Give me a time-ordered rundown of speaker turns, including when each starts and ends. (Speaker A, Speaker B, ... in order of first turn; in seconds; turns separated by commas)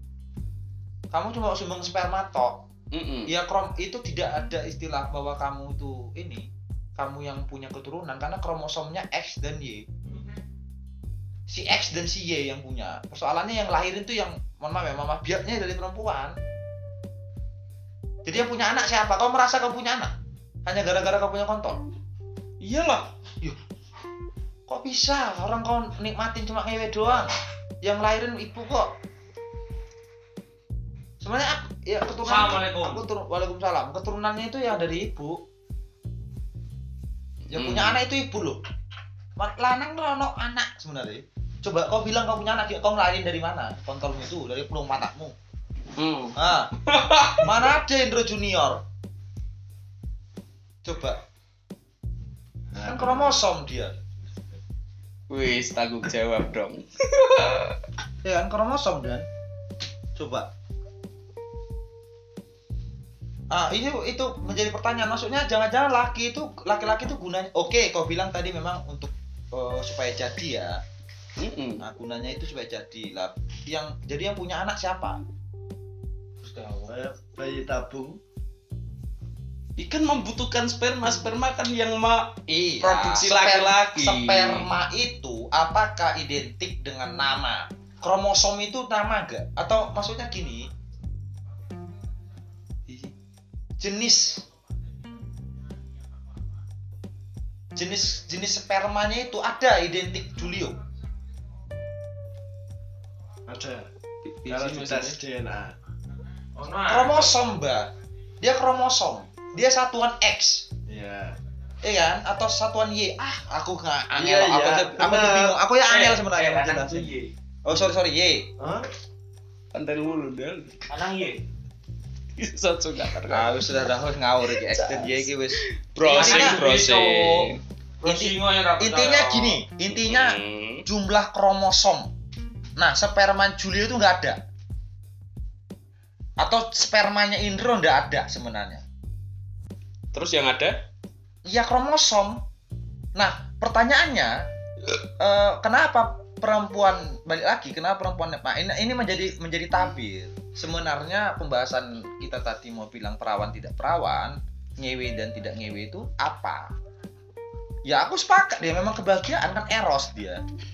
Speaker A: 1.1-2.6, Speaker B: 2.9-3.3, Speaker A: 3.3-9.9, Speaker A: 11.5-16.4, Speaker A: 18.2-20.1, Speaker A: 20.6-21.8, Speaker B: 22.6-23.0, Speaker A: 24.7-28.9, Speaker A: 31.2-35.4, Speaker C: 32.2-33.0, Speaker B: 37.5-38.0, Speaker A: 37.5-38.6, Speaker A: 39.4-45.3, Speaker B: 46.0-47.8, Speaker A: 46.4-46.7, Speaker A: 47.3-48.8, Speaker A: 50.8-51.2, Speaker D: 52.7-53.4, Speaker A: 52.8-54.0, Speaker D: 54.2-54.6, Speaker B: 55.3-57.8, Speaker A: 58.2-59.2, Speaker A: 60.1-60.5, Speaker A: 63.5-70.8, Speaker B: 71.4-71.8, Speaker A: 71.8-75.2, Speaker C: 76.4-76.9, Speaker D: 76.9-78.2, Speaker B: 79.8-84.7, Speaker A: 82.5-90.7, Speaker A: 93.8-94.5, Speaker A: 97.8-100.8, Speaker D: 103.5-103.9, Speaker B: 104.3-105.2, Speaker D: 104.5-105.7, Speaker C: 106.5-107.3, Speaker A: 106.8-110.7, Speaker D: 110.9-111.4, Speaker A: 111.8-117.1, Speaker D: 114.1-115.6, Speaker C: 115.9-117.3, Speaker A: 117.6-118.5, Speaker D: 118.6-118.9, Speaker B: 119.7-120.8, Speaker C: 120.9-121.4, Speaker B: 122.4-123.9, Speaker A: 123.3-126.5, Speaker B: 124.5-127.6, Speaker C: 126.1-129.6, Speaker A: 128.1-132.1, Speaker B: 129.9-130.8, Speaker A: 132.8-134.4, Speaker A: 136.4-138.8, Speaker B: 140.1-140.8, Speaker A: 141.4-142.4, Speaker A: 143.1-144.5, Speaker A: 145.2-156.7, Speaker A: 157.8-160.4